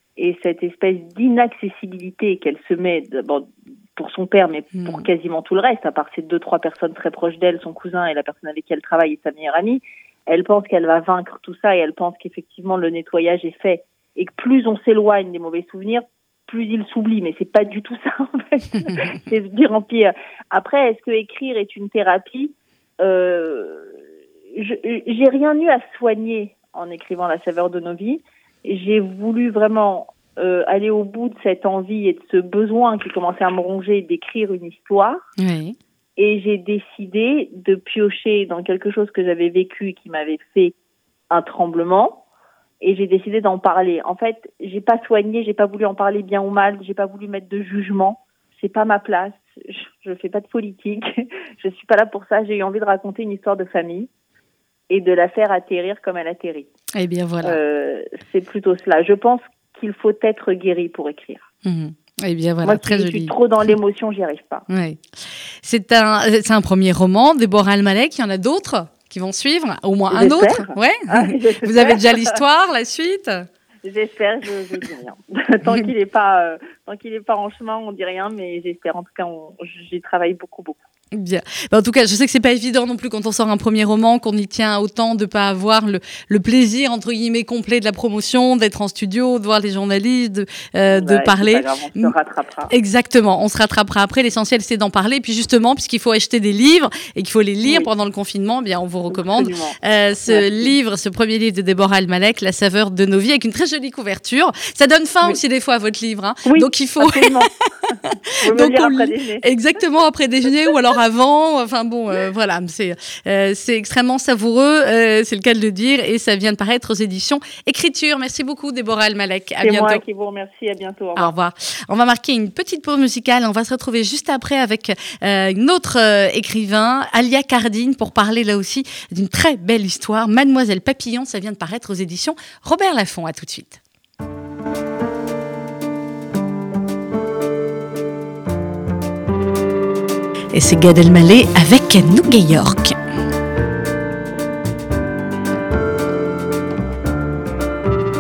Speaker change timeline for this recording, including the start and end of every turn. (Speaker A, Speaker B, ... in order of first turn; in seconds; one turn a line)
Speaker A: 0.2-24.0
Speaker B: 4.8-5.0
Speaker A: 24.6-35.2
Speaker B: 35.4-35.8
Speaker A: 36.2-40.7
Speaker A: 41.3-42.2
Speaker A: 42.8-54.1
Speaker A: 54.9-56.7
Speaker B: 56.9-57.6
Speaker A: 57.4-61.5
Speaker B: 61.6-63.3
Speaker A: 62.6-64.7
Speaker B: 64.7-65.0
Speaker B: 65.6-73.5
Speaker A: 70.1-72.4
Speaker A: 73.8-80.8
Speaker B: 81.1-92.1
Speaker A: 90.9-92.7
Speaker B: 92.7-107.5
Speaker A: 97.6-97.9
Speaker A: 99.1-100.7
Speaker A: 106.5-109.4
Speaker B: 108.1-120.0
Speaker A: 119.6-121.3
Speaker B: 121.2-133.8
Speaker B: 140.5-143.0